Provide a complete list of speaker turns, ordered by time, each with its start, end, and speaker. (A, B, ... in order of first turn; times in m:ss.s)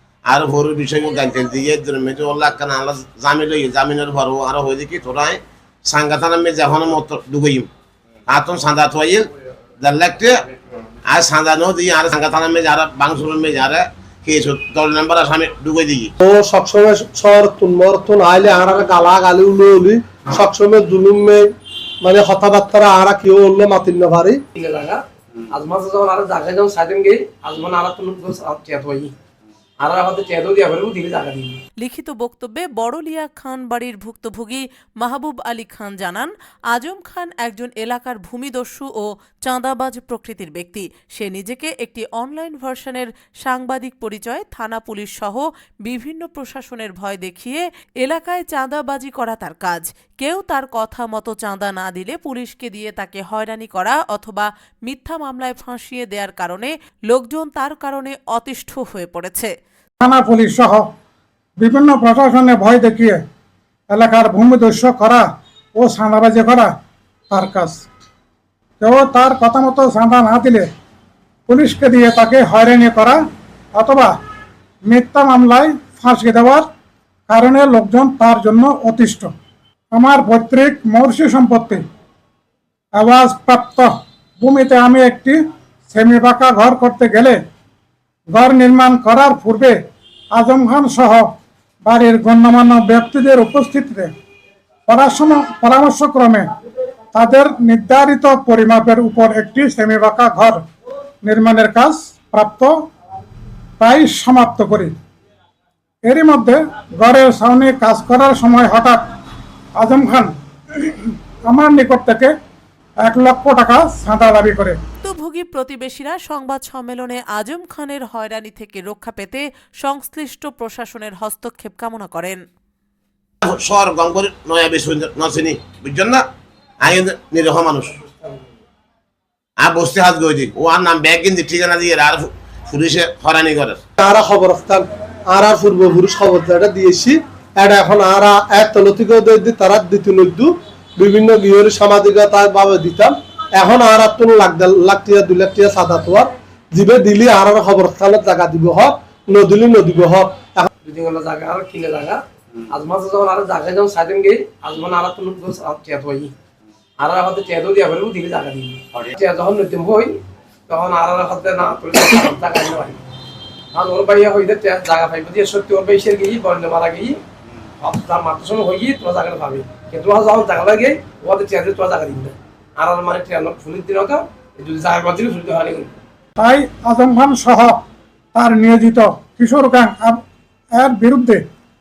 0:00.3-0:07.7 A
0:08.3-0:09.3 A
0:09.8-0:10.4 A
0:11.1-0:16.1 A
0:16.2-0:21.5 B
0:22.0-0:24.4 B
0:24.6-0:29.1 C
0:29.8-0:31.6 C
0:31.8-0:59.5 D
1:00.0-1:00.8 E
1:01.6-1:03.2 E
1:03.9-1:06.7 E
1:07.3-1:07.8 E
1:08.8-1:10.7 E
1:11.5-1:13.2 E
1:13.8-1:14.2 E
1:14.8-1:16.7 E
1:17.3-1:19.3 E
1:19.9-1:21.8 E
1:23.0-1:25.4 E
1:25.9-1:27.4 E
1:28.3-1:29.8 E
1:30.3-1:31.3 E
1:31.8-1:34.1 E
1:34.9-1:36.4 E
1:37.1-1:40.6 E
1:41.2-1:42.7 E
1:43.8-1:44.9 E
1:46.0-1:49.0 E
1:49.8-1:52.3 E
1:53.0-1:54.8 E
1:55.0-2:02.4 D
2:03.4-2:06.2 A
2:06.8-2:08.0 A
2:09.6-2:13.8 A
2:14.0-2:30.7 B
2:30.8-2:36.3 C
2:37.0-2:43.0 C
2:43.7-2:47.2 C
2:47.8-2:55.9 C
2:56.4-2:57.8 E
2:58.3-3:00.2 E
3:00.8-3:01.4 E